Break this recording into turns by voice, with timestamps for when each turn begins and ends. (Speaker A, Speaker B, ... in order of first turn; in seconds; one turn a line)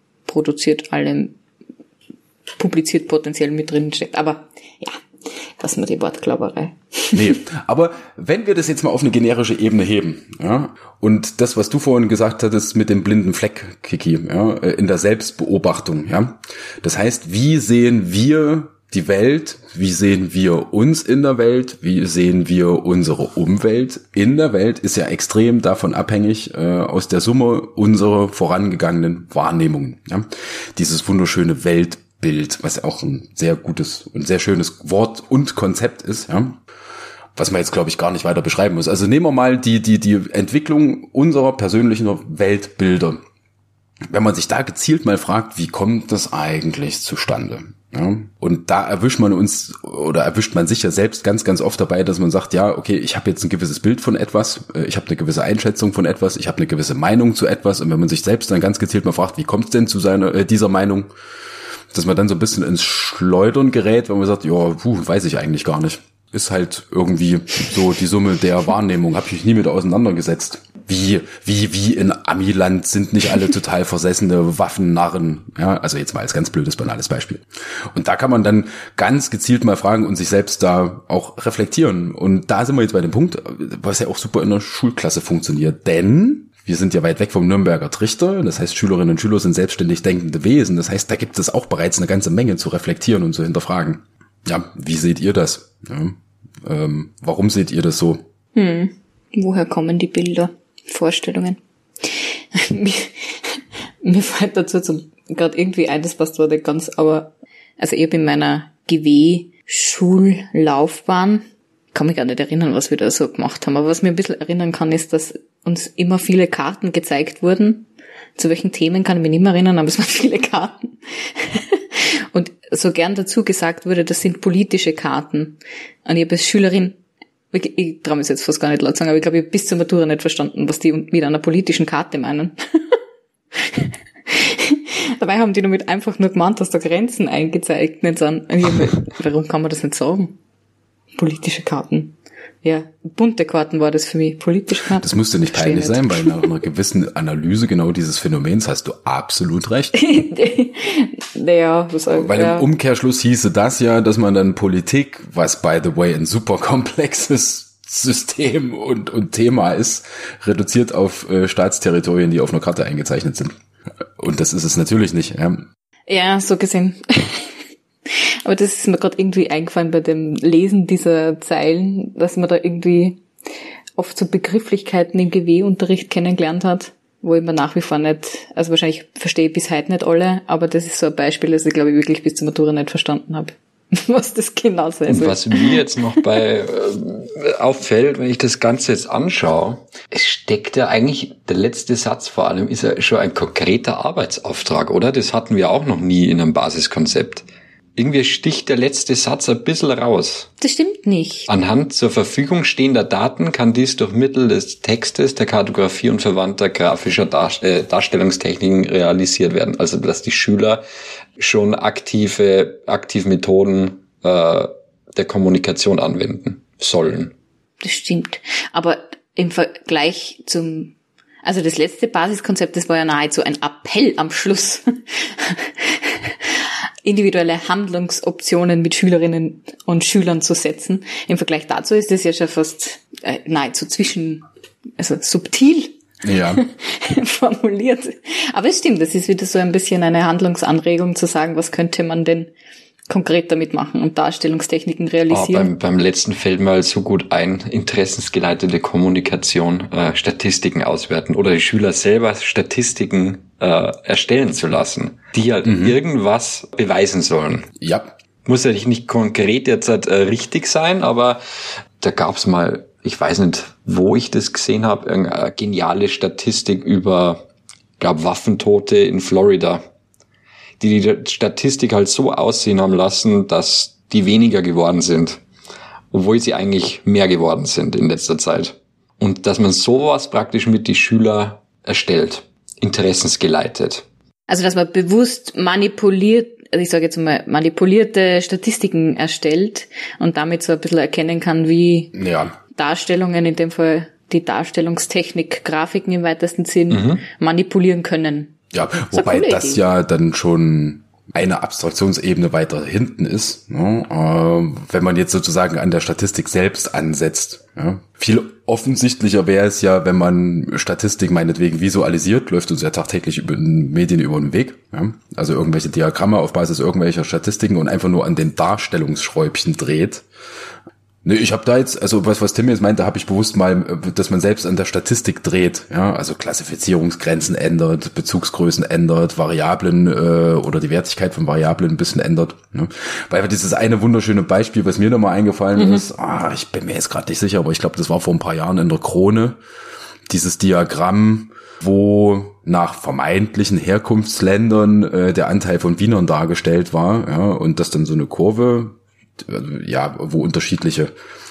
Speaker A: 0.2-1.4
Speaker A: 2.6-5.0
Speaker A: 5.6-7.3
Speaker B: 7.1-36.6
Speaker B: 37.4-43.2
Speaker B: 44.1-61.1
Speaker B: 61.9-98.2
Speaker A: 98.5-117.8
Speaker A: 118.4-127.0
Speaker A: 127.5-132.5
Speaker A: 133.5-140.3
Speaker A: 141.2-146.3
Speaker B: 145.0-149.9
Speaker A: 149.9-152.7
Speaker B: 152.1-163.5
Speaker B: 164.2-165.7
Speaker A: 166.1-167.5
Speaker A: 168.1-173.2
Speaker A: 174.0-185.8
Speaker C: 185.1-197.4
Speaker C: 197.9-200.5
Speaker A: 200.6-201.5
Speaker C: 201.5-210.8
Speaker C: 211.4-217.3
Speaker A: 217.8-220.9
Speaker A: 221.4-234.4
Speaker A: 235.0-242.5
Speaker B: 236.2-236.6
Speaker A: 243.1-245.7
Speaker C: 245.3-257.7
Speaker B: 255.6-256.0
Speaker B: 257.8-258.1
Speaker C: 258.4-261.4
Speaker C: 262.0-267.4
Speaker C: 268.0-269.8
Speaker C: 270.8-275.4
Speaker C: 276.1-284.0
Speaker A: 284.5-292.1
Speaker B: 292.1-292.5
Speaker A: 292.7-298.5
Speaker C: 296.9-297.2
Speaker B: 298.7-320.2
Speaker A: 299.1-299.8
Speaker B: 321.2-339.6
Speaker A: 335.8-336.0
Speaker B: 340.3-351.1